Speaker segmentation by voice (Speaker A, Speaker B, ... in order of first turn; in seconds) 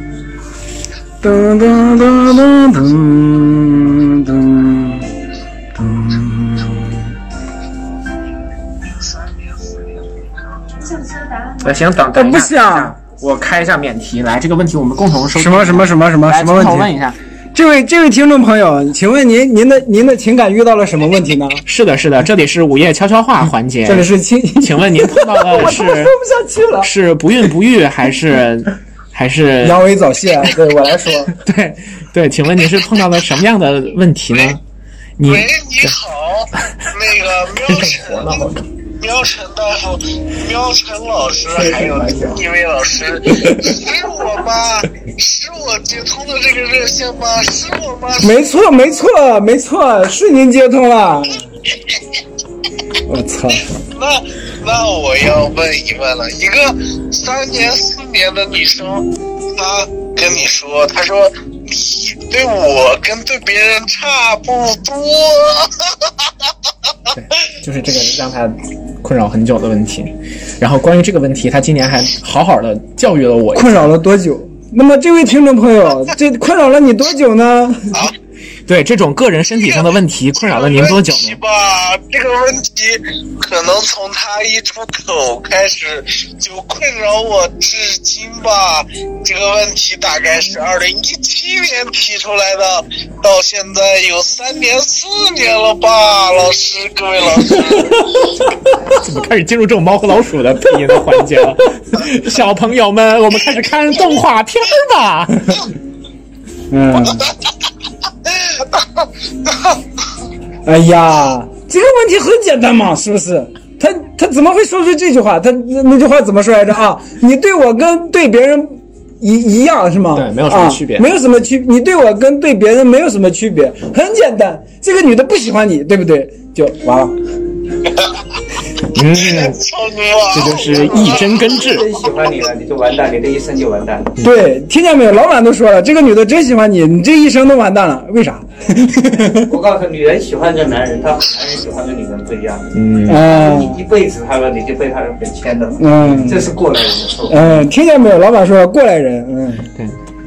Speaker A: 1.2-5.1, 5.8-7.1, 12.1-13.0, 15.3-16.9, 17.6-21.6, 23.9-26.9, 29.6-31.4, 48.2-51.5, 53.1-53.7, 73.5-78.0, 106.7-107.3, 110.7-127.2, 134.2-139.5, 143.1-143.8, 145.8-146.5, 147.3-149.7
Speaker B: 11.5-17.2, 21.7-26.1, 26.8-29.9, 31.4-34.6, 35.2-35.9, 37.6-38.6, 67.1-74.0, 78.7-81.4, 98.9-105.6, 120.1-121.1, 128.9-129.6, 130.3-131.9, 142.7-143.3
Speaker C: 35.2-48.4, 53.8-66.3, 80.4-98.2, 127.9-128.1, 129.1-131.5
Speaker D: 41.5-42.4, 130.7-134.1, 139.3-147.5